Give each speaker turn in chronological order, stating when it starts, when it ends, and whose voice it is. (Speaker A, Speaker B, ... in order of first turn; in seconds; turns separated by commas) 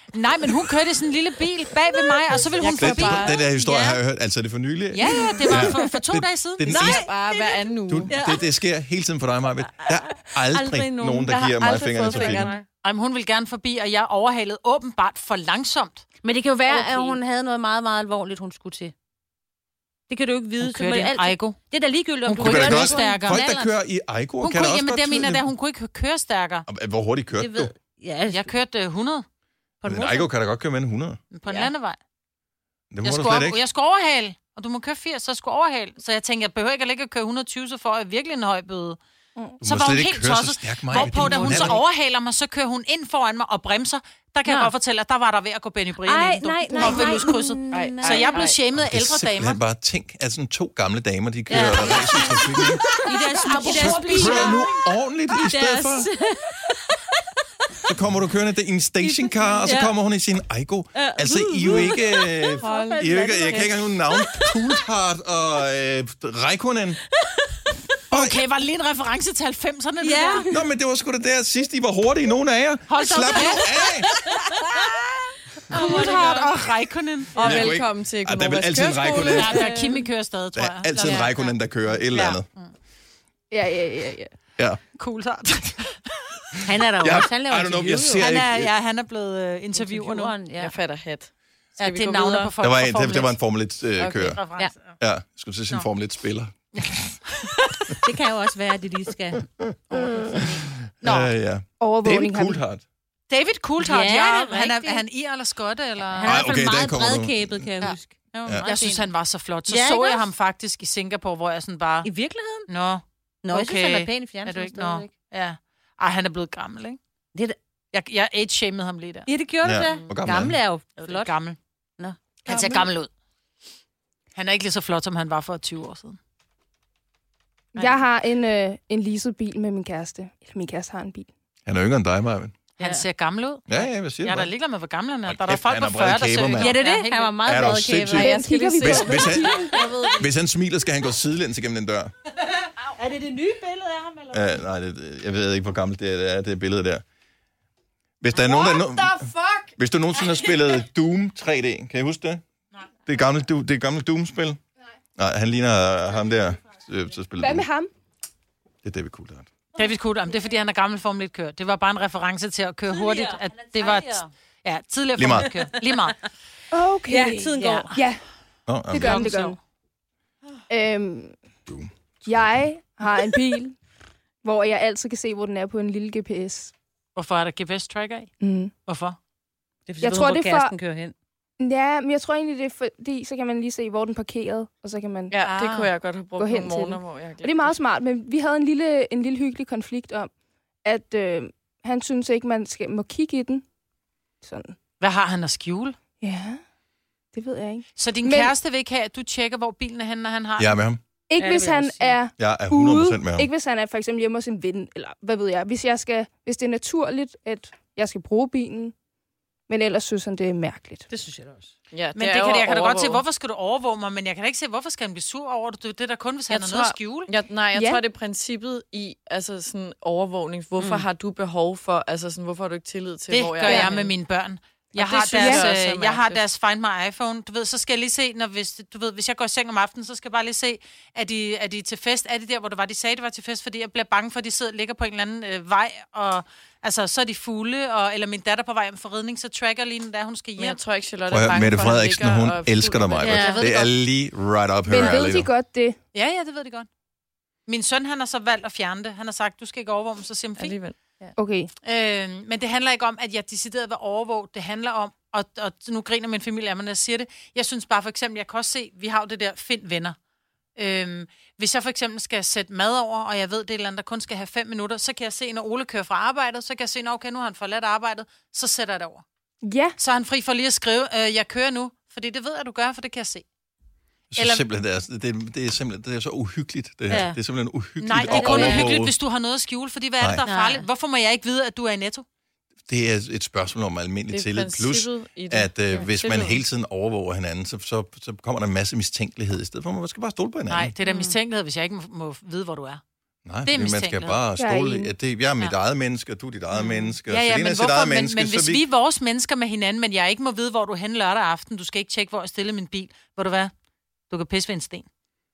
Speaker A: 0.1-3.3, Speaker B: 1.9-2.4, Speaker C: 2.6-3.4, Speaker D: 2.7-7.0, Speaker B: 2.9-4.0, Speaker C: 4.9-5.2, Speaker A: 5.0-6.8, Speaker B: 5.1-5.8, Speaker C: 6.7-8.1, Speaker B: 6.7-8.4, Speaker D: 7.9-12.5, Speaker B: 9.8-12.7, Speaker C: 12.1-12.5, Speaker A: 12.8-16.1, Speaker B: 16.2-18.9, Speaker C: 16.7-17.2, Speaker B: 20.1-23.7, Speaker A: 20.6-21.6, Speaker A: 22.2-23.5, Speaker D: 22.4-25.5, Speaker A: 24.4-26.6, Speaker D: 26.7-27.7, Speaker B: 27.3-28.5, Speaker A: 28.3-29.2, Speaker D: 29.8-31.2, Speaker B: 29.8-30.2, Speaker A: 29.9-30.2, Speaker A: 31.3-32.0, Speaker D: 32.9-33.6, Speaker A: 33.0-39.0, Speaker D: 39.6-41.8, Speaker A: 39.6-49.6, Speaker B: 41.0-41.8, Speaker B: 44.5-44.7, Speaker B: 46.0-48.5, Speaker E: 46.7-47.3, Speaker C: 47.7-48.6, Speaker D: 48.7-53.0, Speaker B: 51.5-54.7, Speaker E: 53.1-54.5, Speaker A: 53.6-54.4, Speaker D: 53.8-56.1, Speaker B: 55.4-56.7, Speaker D: 57.9-67.0, Speaker B: 59.0-59.9, Speaker B: 60.9-64.8, Speaker C: 62.6-63.7, Speaker D: 68.1-68.4, Speaker A: 68.1-70.5, Speaker B: 70.0-70.6, Speaker D: 70.5-74.1, Speaker A: 72.9-74.2, Speaker B: 73.5-74.6, Speaker B: 75.7-76.6, Speaker A: 75.7-77.6, Speaker C: 77.3-79.7, Speaker D: 77.4-79.5, Speaker A: 79.2-82.7, Speaker B: 79.4-80.0, Speaker D: 80.5-82.5, Speaker C: 81.0-81.3, Speaker E: 83.5-84.3, Speaker A: 84.9-86.4, Speaker B: 86.6-88.3, Speaker D: 87.0-88.7, Speaker A: 88.2-90.3, Speaker B: 89.7-90.8, Speaker C: 90.6-92.5, Speaker A: 91.8-93.4, Speaker D: 92.6-94.4, Speaker C: 94.0-94.4, Speaker A: 94.2-94.9, Speaker D: 95.0-97.2, Speaker B: 97.9-100.7, Speaker D: 99.4-99.9, Speaker C: 99.9-100.4, Speaker D: 100.8-102.8, Speaker A: 101.0-101.3, Speaker E: 101.8-102.6, Speaker A: 103.3-106.4, Speaker B: 103.8-105.0, Speaker B: 106.0-109.1, Speaker D: 106.2-107.7, Speaker A: 108.6-112.1, Speaker B: 109.7-110.3, Speaker B: 112.0-112.7, Speaker A: 112.7-117.0, Speaker B: 113.4-115.1, Speaker A: 117.9-119.3, Speaker B: 119.3-121.3, Speaker D: 119.6-120.6, Speaker C: 119.8-120.2, Speaker A: 121.0-121.6, Speaker B: 122.0-122.6, Speaker A: 122.4-123.1, Speaker E: 122.5-122.8, Speaker A: 124.3-126.2, Speaker E: 127.7-131.3, Speaker A: 127.8-128.0, Speaker D: 131.7-132.5, Speaker A: 132.8-137.4, Speaker D: 133.7-134.5, Speaker D: 135.2-136.8, Speaker B: 136.6-138.3, Speaker D: 137.4-142.1, Speaker C: 138.1-140.0, Speaker E: 138.1-139.9, Speaker B: 139.3-140.3, Speaker B: 142.8-144.6, Speaker D: 144.3-147.0, Speaker D: 148.2-152.4, Speaker C: 148.3-149.7, Speaker D: 153.1-154.6, Speaker D: 155.2-157.7, Speaker E: 157.4-157.9, Speaker D: 158.8-159.5, Speaker A: 159.8-166.2, Speaker B: 162.9-164.3, Speaker D: 165.2-165.5, Speaker B: 165.4-165.8, Speaker E: 166.7-168.2, Speaker B: 167.1-168.0, Speaker A: 167.6-167.9, Speaker D: 168.7-169.2, Speaker E: 168.9-169.6, Speaker A: 169.0-169.6, Speaker E: 170.7-171.3, Speaker E: 172.2-173.8, Speaker E: 174.4-176.7, Speaker A: 177.2-178.3, Speaker E: 178.4-178.7, Speaker A: 178.8-179.2, Speaker B: 179.9-181.1, Speaker E: 180.0-180.8, Speaker E: 181.6-185.4, Speaker C: 185.3-187.8, Speaker A: 185.4-185.9, Speaker E: 186.4-190.3, Speaker E: 190.8-193.6, Speaker E: 194.4-194.8, Speaker A: 195.0-196.0, Speaker E: 196.2-196.6, Speaker E: 197.3-198.5, Speaker A: 198.0-200.8, Speaker D: 200.6-201.0, Speaker E: 201.3-208.9, Speaker B: 201.4-202.2, Speaker D: 202.4-203.5, Speaker E: 209.7-211.1, Speaker B: 211.1-211.7, Speaker C: 211.9-213.2, Speaker A: 212.1-217.3, Speaker C: 216.5-224.1, Speaker E: 217.7-218.0, Speaker B: 220.8-221.1, Speaker A: 223.3-240.8, Speaker E: 223.6-223.9, Speaker C: 224.9-226.4, Speaker E: 225.3-225.7, Speaker C: 240.6-243.5, Speaker D: 241.3-245.5, Speaker B: 243.2-243.7, Speaker A: 243.3-243.9, Speaker E: 244.9-246.0, Speaker A: 246.1-246.9, Speaker A: 247.7-250.8, Speaker C: 250.6-250.9, Speaker E: 251.4-251.7, Speaker A: 251.8-260.1, Speaker A: 260.8-269.2, Speaker E: 269.6-269.9, Speaker A: 270.0-273.4, Speaker D: 274.3-279.1, Speaker A: 274.3-274.6, Speaker B: 277.1-277.4, Speaker A: 278.0-282.2, Speaker B: 278.2-278.9, Speaker B: 280.4-280.9, Speaker D: 282.9-290.9, Speaker C: 284.3-286.6, Speaker B: 285.9-286.1, Speaker A: 290.7-293.0, Speaker B: 291.0-291.3, Speaker D: 293.4-298.8, Speaker A: 293.6-294.4, Speaker E: 294.6-295.1, Speaker A: 296.7-303.7, Speaker A: 304.3-305.1